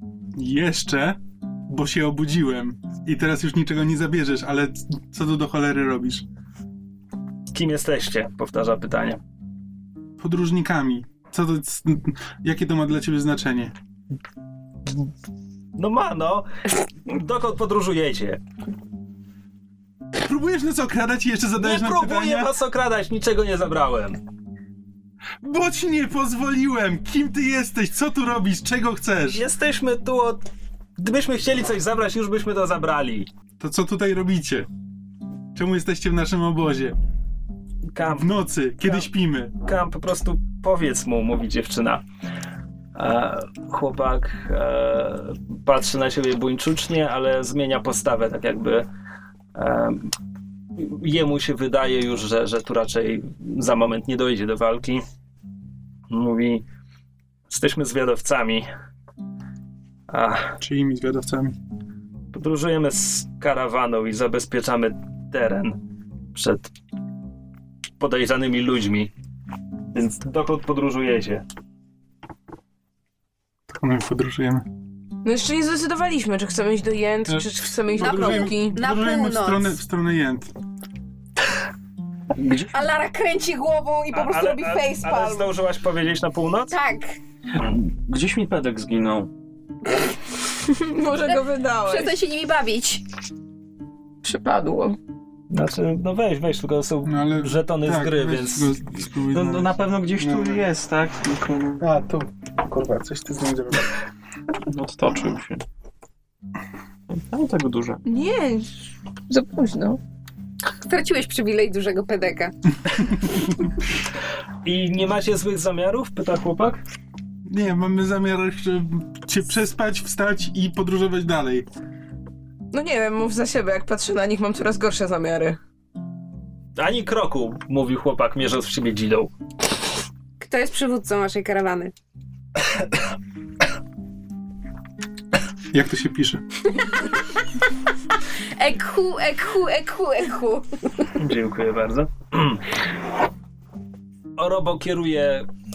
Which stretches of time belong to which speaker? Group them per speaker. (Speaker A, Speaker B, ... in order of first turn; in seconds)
Speaker A: 0.4-6.2, 10.2-13.7, 20.2-22.5, 25.4-29.4, 33.6-34.7, 35.5-37.0, 38.2-39.5, 60.6-61.6, 73.7-74.7, 77.3-80.5, 97.0-100.7, 101.8-103.9, 117.5-121.7, 135.7-136.4
Speaker B: 7.5-9.2, 14.9-15.1, 15.8-18.4, 21.6-24.2, 29.3-33.3, 37.9-38.3, 39.6-42.0, 43.0-48.9, 49.5-50.1, 50.8-55.0, 56.1-56.6, 57.5-58.7, 60.1-60.6, 62.3-65.8, 66.3-66.7, 68.0-69.1, 69.9-71.5, 84.1-86.8, 95.5-98.8, 114.7-116.8, 126.8-129.3, 141.2-142.8, 144.4-145.5
Speaker C: 75.2-78.8, 90.6-92.2, 94.2-95.0, 108.1-108.8, 109.3-110.0, 122.7-125.6
Speaker D: 78.0-79.8, 82.7-85.5, 86.7-87.2, 91.2-93.0, 110.8-112.5, 130.4-131.9, 138.6-141.1
Speaker E: 82.4-82.7, 87.5-89.3, 99.3-101.8, 104.6-105.6, 107.1-108.0